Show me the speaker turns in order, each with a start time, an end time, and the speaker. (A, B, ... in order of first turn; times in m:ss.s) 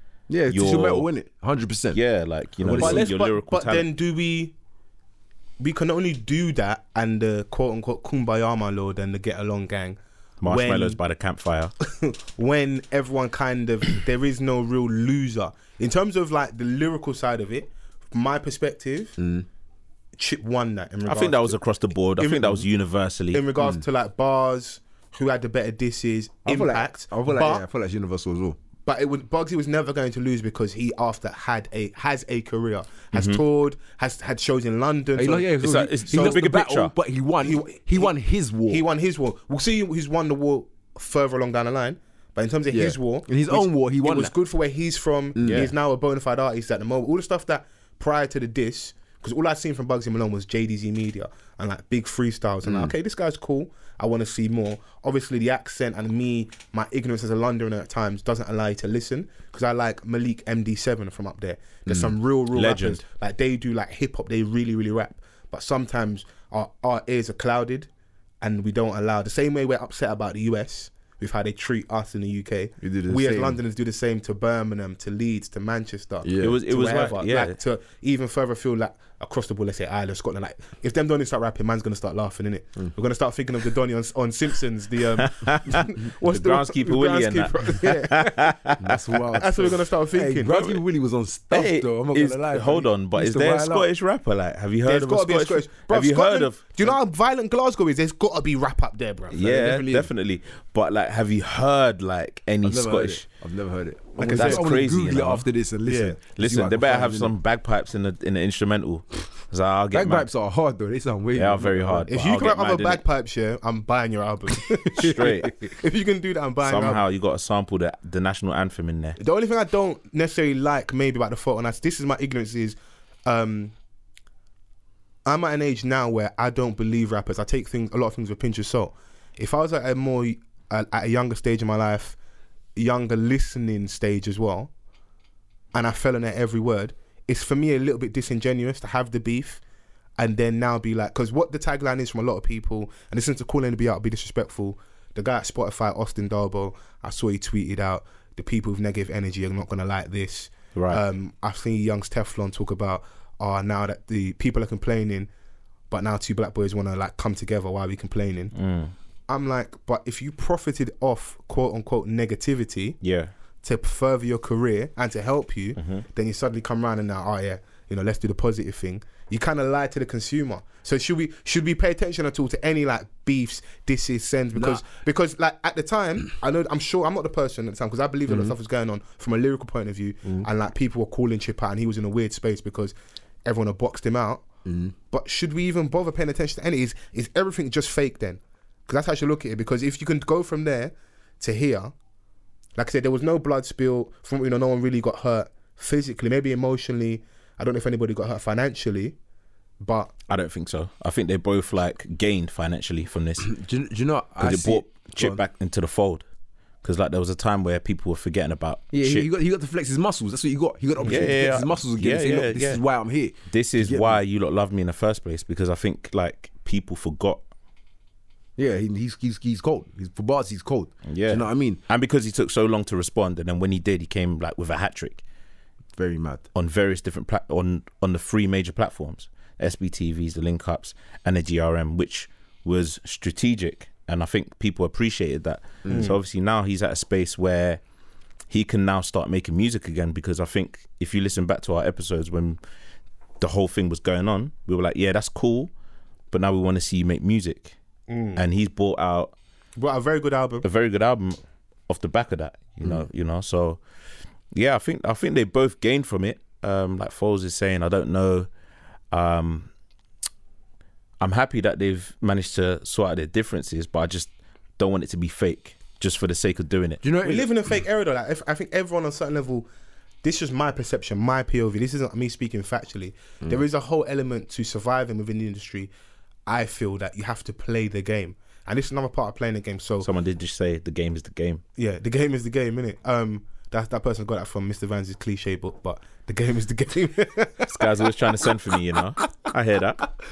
0:00.3-0:02.0 A
0:00.5-0:01.1 B
0:01.9-0:03.9 B
0:02.6-0:03.1 A
0:02.7-0:04.5 C
0:05.6-0:11.0 C
0:10.4-0:11.7 B
0:12.0-0:19.2 C
0:19.2-0:19.4 A
0:20.2-0:21.6 C
0:21.0-0:23.4 B
0:22.2-0:22.6 C
0:23.3-0:27.6 C
0:26.4-0:28.6 A
0:28.8-0:36.4 C
0:33.1-0:33.4 B
0:35.2-0:38.8 A
0:35.6-0:36.9 B
0:37.4-0:38.1 C
0:38.7-1:07.9 C
0:42.7-0:44.3 A
0:45.4-0:45.7 A
0:45.4-0:45.7 B
0:52.6-0:52.9 A
1:01.8-1:02.1 A
1:02.5-1:03.0 B
1:08.4-1:28.7 C
1:12.8-1:13.6 A
1:16.2-1:16.6 A
1:16.4-1:17.6 B
1:25.2-1:29.2 B
1:28.8-1:33.9 A
1:29.3-1:30.6 C
1:31.5-1:37.0 B
1:34.8-1:39.5 C
1:39.3-1:43.2 B
1:39.4-1:40.1 A
1:42.6-1:47.3 A
1:44.2-1:44.6 C
1:44.2-1:45.4 B
1:45.8-1:46.2 C
1:46.4-1:50.3 B
1:49.9-1:52.1 A
1:51.3-1:53.0 B
1:52.1-1:57.0 C
1:54.7-1:55.6 A
1:54.9-1:55.5 B
1:56.6-1:59.2 B
1:59.2-2:03.7 C
2:05.2-2:12.2 C
2:12.8-2:14.7 C
2:15.7-2:19.6 C
2:20.2-2:35.3 C
2:30.7-2:31.0 B
2:35.9-2:38.5 C
2:38.5-2:38.9 B
2:39.3-2:43.0 C
2:43.0-2:43.3 B
2:43.6-3:04.4 C
2:45.8-2:46.0 B
2:54.5-2:54.8 A
2:58.3-2:58.5 A
3:04.6-3:04.9 A
3:05.1-3:11.9 C
3:12.8-3:19.1 C
3:19.8-3:20.1 C
3:20.3-3:23.5 B
3:23.4-3:25.4 A
3:24.4-3:26.2 B
3:26.8-3:29.3 B
3:28.9-3:34.2 A
3:31.0-3:32.8 B
3:33.5-3:37.4 B
3:38.6-3:41.8 A
3:41.0-3:45.2 B
3:46.0-3:46.4 A
3:46.5-3:57.8 B
3:55.8-3:56.1 A
3:58.5-4:02.6 B
4:03.4-4:05.7 B
4:06.3-4:07.7 B
4:08.1-4:08.4 C
4:08.3-4:09.3 B
4:09.8-4:10.6 C
4:10.6-4:11.4 B
4:11.9-4:13.8 B
4:14.5-4:18.5 B
4:19.1-4:19.7 B
4:21.2-4:27.0 B
4:27.0-4:27.5 A
4:27.2-4:29.7 C
4:30.2-4:35.9 C
4:36.4-4:40.1 C
4:40.0-4:41.6 B
4:41.8-4:48.5 C
4:47.7-4:50.0 B